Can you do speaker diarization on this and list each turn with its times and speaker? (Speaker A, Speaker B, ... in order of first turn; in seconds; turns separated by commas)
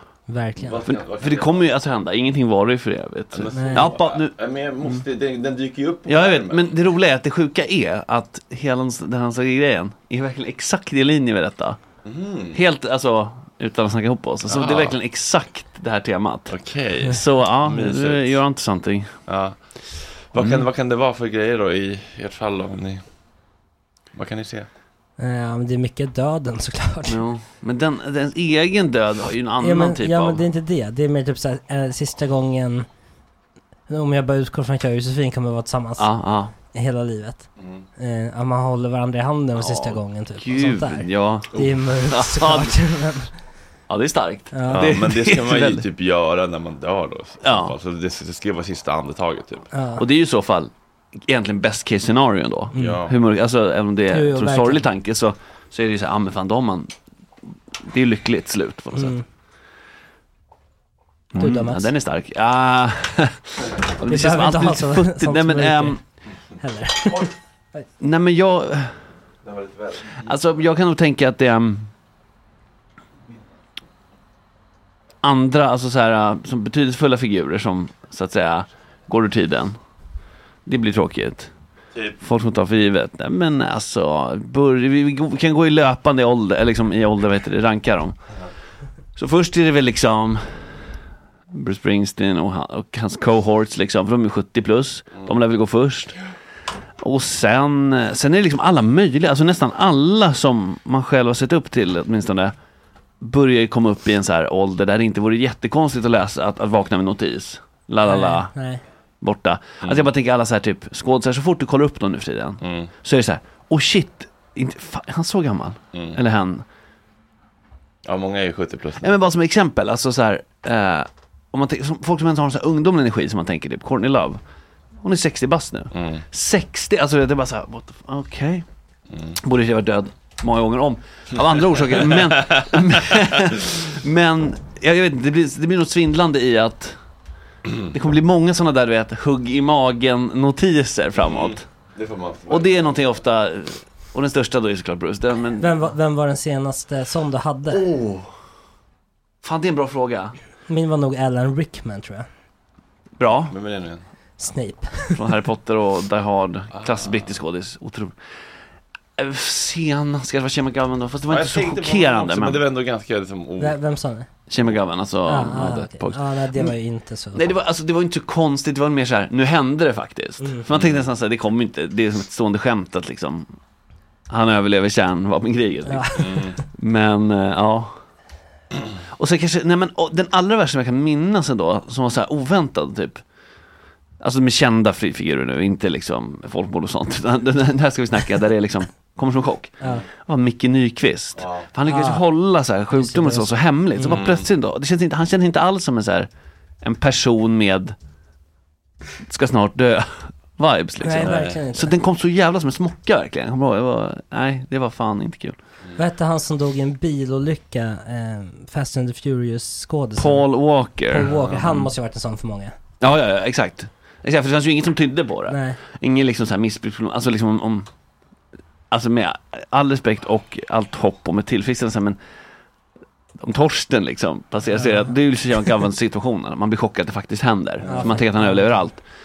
Speaker A: 0.3-0.8, Speaker B: 0.6-1.6, Speaker C: 0.9-4.3, Speaker B: 3.3-6.8, Speaker A: 3.5-3.9, Speaker C: 6.1-11.8, Speaker B: 12.1-12.6, Speaker C: 12.5-19.1, Speaker B: 14.5-15.0, Speaker B: 16.5-18.4, Speaker B: 19.3-19.6, Speaker B: 20.3-23.0, Speaker C: 20.4-20.7, Speaker B: 24.1-24.7, Speaker A: 25.2-27.2, Speaker C: 27.1-30.4, Speaker A: 29.6-32.9, Speaker A: 33.9-43.3, Speaker C: 36.0-36.5, Speaker C: 39.6-42.7, Speaker C: 43.9-45.8, Speaker A: 44.5-44.9, Speaker B: 44.7-49.7, Speaker C: 47.4-47.8, Speaker A: 49.7-50.0, Speaker C: 50.0-56.9, Speaker A: 52.8-53.0, Speaker B: 52.8-53.1, Speaker A: 54.1-54.9, Speaker C: 57.9-59.2, Speaker A: 59.0-59.2, Speaker C: 61.3-66.0, Speaker A: 61.4-61.9, Speaker A: 64.1-66.0, Speaker A: 66.6-67.8, Speaker C: 68.0-69.0, Speaker B: 69.5-70.3, Speaker C: 70.2-71.9, Speaker C: 75.2-79.8, Speaker C: 80.7-81.5, Speaker C: 82.2-88.2, Speaker C: 89.2-90.7, Speaker C: 91.5-96.2, Speaker C: 97.0-102.5, Speaker C: 103.2-108.5, Speaker A: 108.0-108.8, Speaker C: 109.2-116.7, Speaker B: 112.6-112.9, Speaker B: 118.1-119.2, Speaker C: 119.0-124.4, Speaker C: 125.0-128.7, Speaker B: 125.9-126.2, Speaker C: 129.4-137.0, Speaker C: 137.9-141.7, Speaker B: 141.2-143.0, Speaker C: 142.5-145.7, Speaker A: 145.6-147.8, Speaker C: 147.7-148.3, Speaker C: 149.4-150.3, Speaker A: 150.7-152.3, Speaker C: 153.2-153.6, Speaker B: 153.5-154.0, Speaker A: 154.4-155.2, Speaker C: 155.2-158.1, Speaker B: 156.8-157.3, Speaker C: 159.2-162.6, Speaker B: 161.3-163.8, Speaker A: 163.6-164.3, Speaker C: 164.5-166.7, Speaker A: 165.3-167.5, Speaker C: 167.3-173.5, Speaker B: 170.7-171.1, Speaker C: 174.3-176.2, Speaker A: 175.9-176.5, Speaker B: 176.2-176.6, Speaker C: 176.7-178.0, Speaker C: 179.2-183.2, Speaker C: 184.2-196.3, Speaker B: 191.4-191.7, Speaker A: 191.9-192.2, Speaker A: 192.9-194.2, Speaker B: 194.1-194.5, Speaker C: 196.8-198.0, Speaker C: 199.3-205.6, Speaker A: 201.0-201.9, Speaker B: 201.2-201.6, Speaker A: 206.0-210.5, Speaker C: 210.2-211.3, Speaker A: 211.1-212.8, Speaker B: 211.3-211.9, Speaker C: 213.0-217.9, Speaker A: 215.5-215.8, Speaker C: 218.9-222.2, Speaker C: 223.4-229.0, Speaker A: 227.9-228.8